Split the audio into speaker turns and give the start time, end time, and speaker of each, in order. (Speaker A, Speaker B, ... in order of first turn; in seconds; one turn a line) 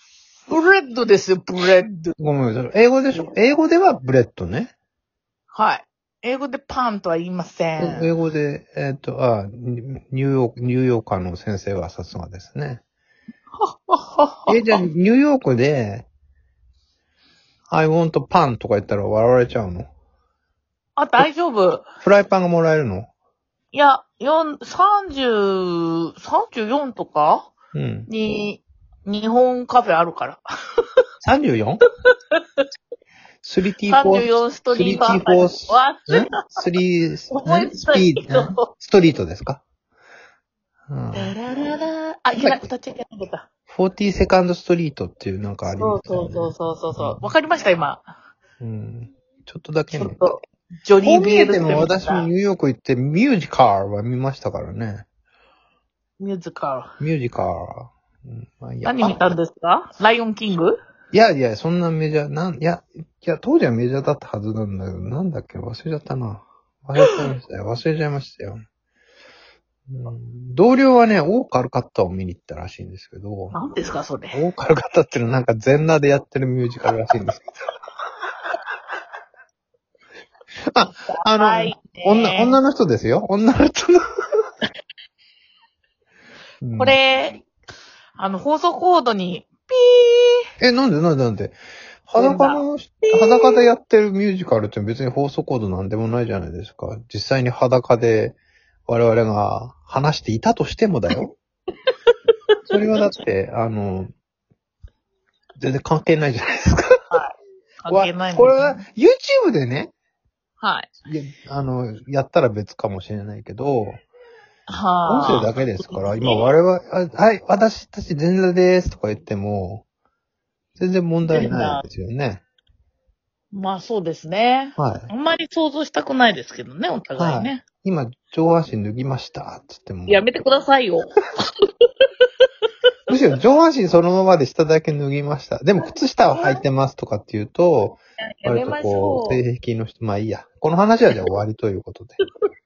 Speaker A: 0.5-2.1
Speaker B: 2.2-4.7
Speaker A: 5.5-8.1
Speaker B: 7.8-12.8
Speaker A: 13.6-14.8
Speaker B: 14.5-16.1
Speaker B: 17.7-19.9
Speaker A: 20.9-21.8
Speaker B: 22.0-23.1
Speaker A: 23.7-27.5
Speaker B: 27.7-28.1
Speaker A: 28.1-30.4
Speaker B: 31.2-31.8
Speaker A: 32.3-32.6
Speaker B: 33.4-39.6
Speaker A: 33.9-36.5
Speaker A: 37.3-38.7
Speaker B: 40.9-41.4
Speaker A: 41.1-43.5
Speaker B: 43.7-47.2
Speaker A: 45.6-48.1
Speaker B: 48.6-50.2
Speaker A: 49.9-52.3
Speaker B: 51.0-55.0
Speaker A: 56.2-56.9
Speaker B: 57.0-59.4
Speaker A: 58.8-60.8
Speaker B: 61.1-68.6
Speaker B: 69.9-73.6
Speaker A: 73.5-74.4
Speaker B: 74.3-77.5
Speaker B: 80.7-84.0
Speaker A: 81.1-82.6
Speaker B: 86.6-87.0
Speaker A: 86.8-87.4
Speaker A: 88.2-90.4
Speaker B: 90.6-101.3
Speaker A: 92.2-93.7
Speaker B: 102.7-104.1
Speaker B: 105.6-106.9
Speaker A: 107.1-108.8
Speaker B: 107.9-109.9
Speaker A: 110.6-110.9
Speaker B: 111.0-114.0
Speaker A: 114.7-116.5
Speaker B: 115.1-119.8
Speaker B: 120.8-122.4
Speaker A: 121.3-121.8
Speaker A: 123.5-127.6
Speaker B: 124.8-125.1
Speaker B: 127.2-130.3
Speaker A: 130.1-131.4
Speaker B: 133.1-142.2
Speaker A: 136.3-136.6
Speaker A: 138.4-139.4